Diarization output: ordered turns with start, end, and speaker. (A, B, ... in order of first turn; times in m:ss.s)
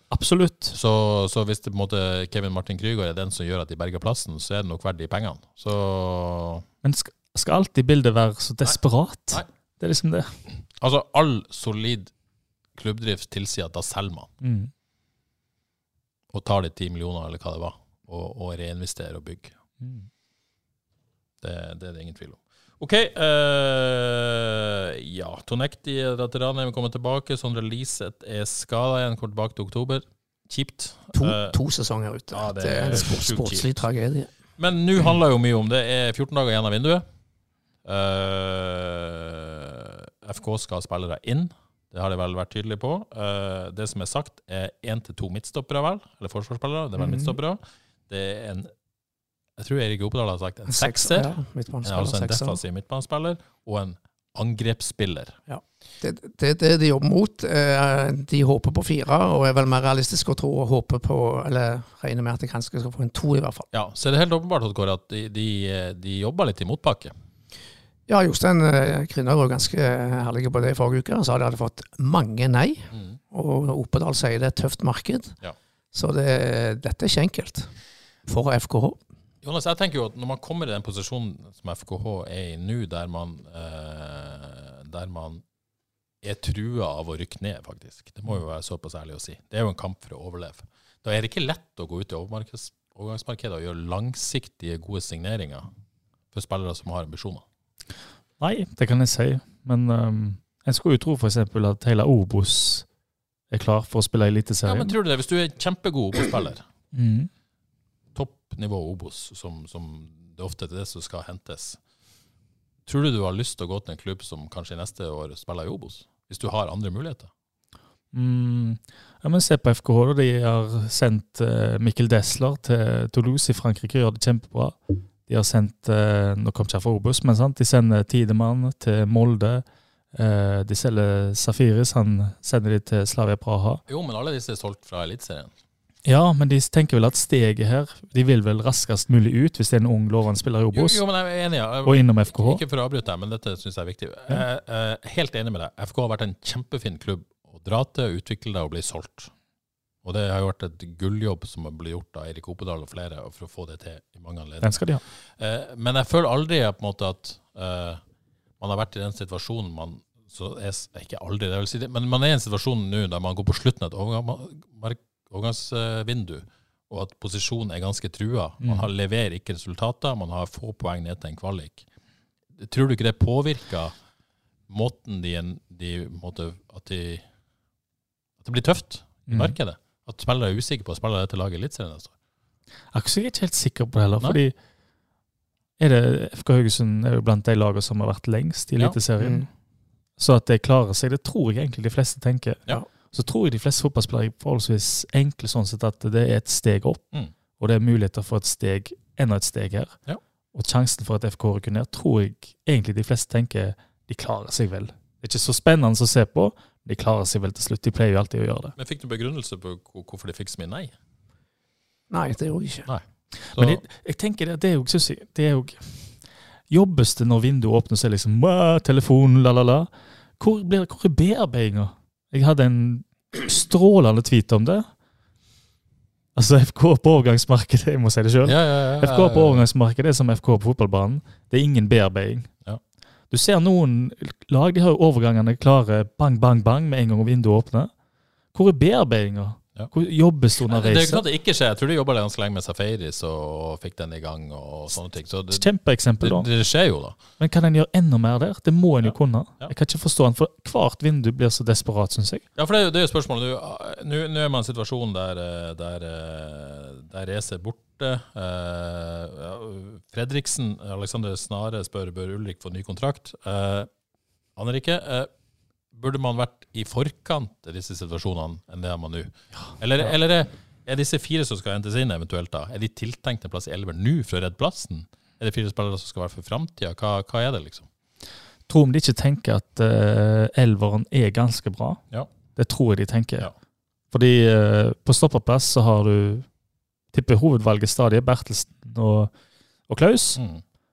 0:00.1-0:00.8 A
0:00.7-0:06.6 B
0:06.8-0:10.3 A
0:10.8-0:12.1 B
0:12.8-0:14.3 B
0:14.4-0:14.7 A
0:16.3-0:19.5 B
0:19.8-0:20.0 A
0:21.4-0:31.6 B
0:31.1-0:34.3 C
0:32.3-0:33.8 B
0:34.6-0:37.0 B
0:37.8-0:48.7 B
0:47.0-0:47.3 C
0:49.6-0:51.3 B
0:50.7-0:52.6 C
0:51.8-0:55.4 B
0:55.5-1:03.7 C
1:03.7-1:07.1 B
1:08.1-1:15.3 C
1:12.9-1:13.2 B
1:15.9-1:17.7 C
1:18.2-1:19.0 C
1:19.4-1:25.4 B
1:26.2-1:35.7 B
1:36.3-1:37.4 B
1:38.4-1:42.8 A
1:43.5-1:44.9 A
1:44.6-1:46.6 B
1:46.9-1:47.3 A
1:48.1-1:51.8 B
1:52.8-1:57.3 B
1:58.1-2:04.7 A
2:05.3-2:09.6 A
2:10.1-2:13.8 A
2:13.9-2:15.5 B
2:16.0-2:21.0 A
2:20.7-2:29.3 B
2:21.8-2:22.6 A
2:30.0-2:34.8 B
2:34.6-2:35.0 A
2:35.4-2:38.0 B
2:38.6-2:51.8 B
2:48.6-2:48.9 A
2:52.6-2:53.9 B
2:54.7-2:57.2 B
2:58.4-3:02.1 B
2:59.3-2:59.5 A
3:02.9-3:04.5 A
3:05.8-3:09.4 A
3:09.2-3:09.5 C
3:10.2-3:17.0 A
3:17.6-3:19.9 A
3:20.5-3:28.7 A
3:28.8-3:30.9 B
3:32.1-3:32.9 C
3:33.5-3:33.8 B
3:33.5-3:35.9 A
3:36.7-3:39.9 A
3:40.4-3:44.9 A
3:46.4-3:52.5 A
3:48.4-3:49.6 B
3:53.3-3:57.9 A
3:58.5-4:01.2 A
4:00.7-4:05.7 B
4:05.5-4:06.4 A
4:06.2-4:07.2 B
4:07.4-4:12.4 A
4:09.0-4:09.7 B
4:12.6-4:23.9 B
4:24.6-4:25.3 B
4:25.9-4:37.9 B
4:38.7-4:42.0 A
4:42.6-4:43.5 A
4:44.1-4:46.4 A
4:47.1-4:49.3 A
4:49.9-4:50.4 A
4:50.4-4:50.6 B